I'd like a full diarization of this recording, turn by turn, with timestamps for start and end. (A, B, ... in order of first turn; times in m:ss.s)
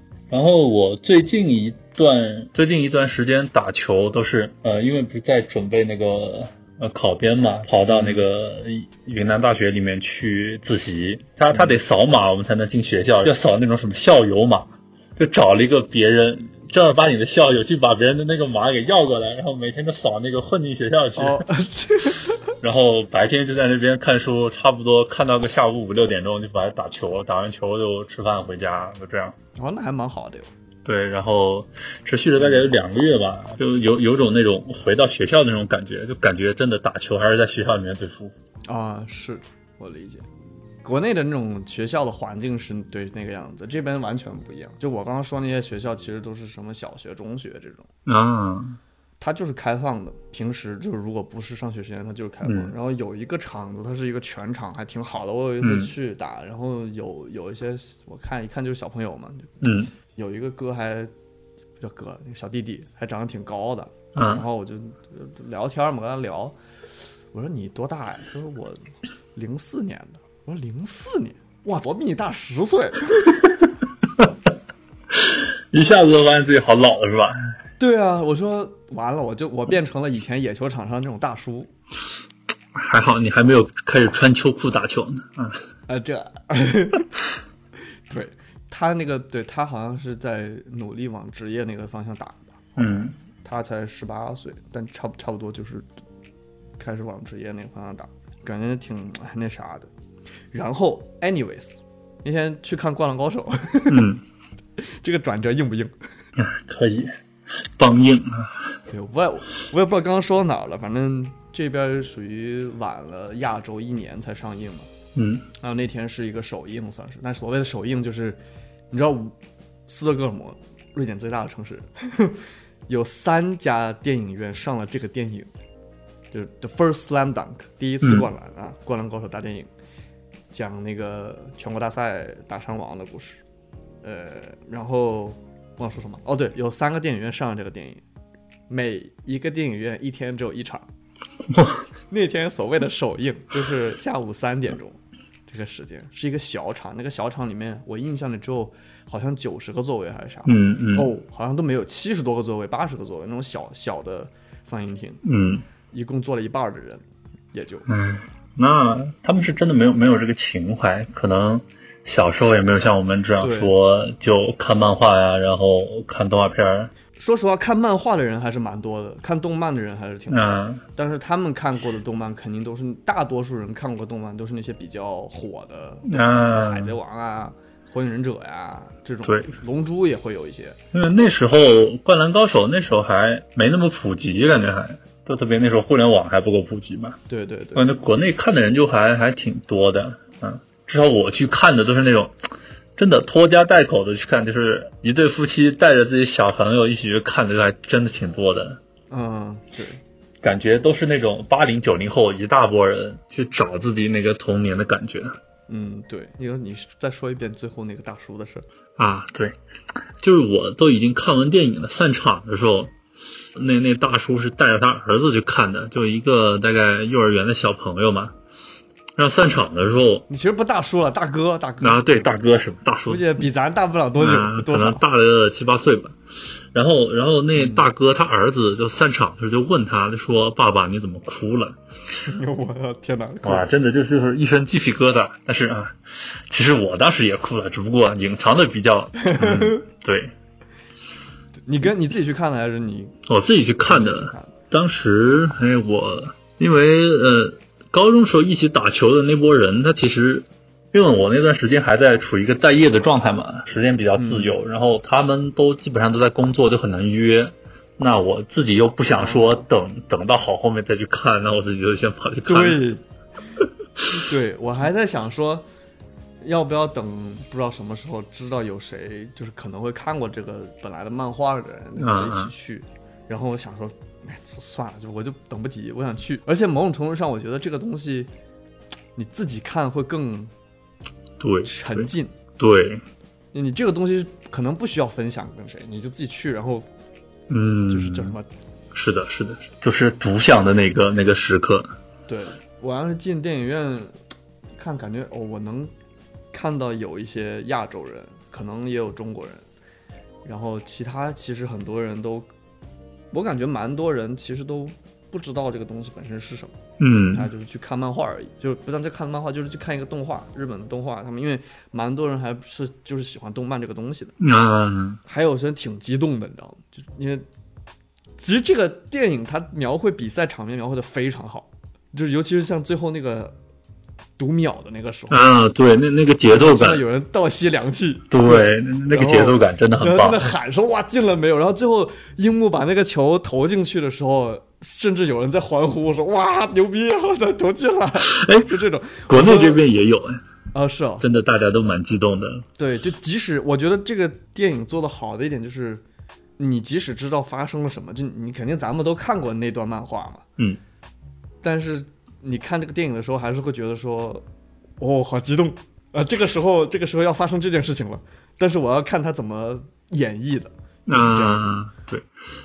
0:00.3-0:21.5 A
0:07.9-0:08.3 B
0:11.5-0:11.8 B
0:21.2-0:22.4 B
0:22.6-0:29.3 A
0:29.6-0:30.5 B
0:30.8-0:38.3 A
0:32.4-0:32.7 B
0:38.7-0:40.2 B
0:40.8-0:47.9 B
0:48.0-0:48.8 A
0:49.2-0:59.6 B
0:52.4-0:52.7 A
0:55.6-0:55.9 A
0:59.6-0:59.9 A
1:00.2-1:01.1 B
1:01.8-1:06.6 B
1:04.1-1:04.4 A
1:07.3-1:13.6 B
1:15.1-1:17.4 A
1:17.8-1:21.7 B
1:22.7-1:25.6 A
1:25.9-1:27.1 B
1:28.1-1:32.8 B
1:32.8-1:33.1 A
1:33.3-1:35.9 B
1:36.8-1:39.9 B
1:40.5-1:44.1 B
1:43.9-1:44.2 A
1:44.8-1:45.9 B
1:46.4-1:47.1 A
1:47.8-1:48.7 A
1:48.9-1:54.9 B
1:55.1-1:55.4 A
1:55.6-1:58.4 B
1:58.9-2:05.5 B
2:06.3-2:09.7 B
2:08.0-2:08.3 A
2:10.5-2:13.4 B
2:14.0-2:18.0 B
2:18.7-2:20.9 B
2:21.5-2:21.8 A
2:22.1-2:35.2 B
2:30.4-2:31.1 A
2:35.2-2:35.6 A
2:35.9-2:37.9 B
2:37.9-2:46.9 A
2:43.4-2:43.7 B
2:47.1-3:00.8 B
2:50.3-2:50.8 A
2:56.1-2:56.9 A
2:59.2-2:59.5 A
3:00.9-3:07.2 A
3:07.3-3:07.9 B
3:07.7-3:12.4 A
3:13.0-3:18.8 A
3:19.1-3:20.0 B
3:20.4-3:25.4 A
3:25.7-3:28.6 B
3:29.0-3:29.5 A
3:30.2-3:32.9 A
3:33.5-3:38.3 A
3:39.2-3:40.2 A
3:40.3-3:42.4 B
3:41.8-3:43.4 A
3:43.0-3:45.0 B
3:44.2-3:46.2 A
3:46.7-3:51.8 A
3:47.5-3:47.9 B
3:52.2-3:53.7 B
3:53.4-3:56.0 A
3:56.5-4:00.3 A
3:59.2-3:59.8 B
4:01.7-4:03.2 B
4:03.2-4:22.8 A
4:03.8-4:04.5 B
4:14.2-4:14.6 B
4:19.2-4:19.6 B
4:22.5-4:23.0 B
4:24.1-4:25.6 B
4:26.4-4:38.3 B
4:32.0-4:32.5 A
4:39.1-4:40.5 B
4:41.4-4:43.0 A
4:41.6-4:42.3 B
4:43.5-4:46.9 B
4:47.5-4:48.3 A
4:47.9-4:48.5 B
4:48.9-4:51.9 A
4:52.3-4:54.2 B
4:54.8-4:55.9 B
4:56.5-4:59.6 B
5:00.4-5:02.5 B
5:03.3-5:06.7 B
5:07.0-5:07.5 A
5:07.3-5:14.3 B
5:14.4-5:15.2 A
5:15.2-5:17.4 B
5:18.4-5:23.6 B
5:24.4-5:25.5 B
5:25.3-5:27.0 A
5:26.5-5:39.8 B
5:28.3-5:30.5 A
5:38.2-5:38.7 A
5:39.3-5:40.4 A
5:40.7-5:41.2 B
5:41.2-5:42.6 A
5:42.8-5:46.0 B
5:46.6-5:50.4 B
5:51.6-5:54.4 B
5:55.0-6:01.7 B
6:01.1-6:02.3 A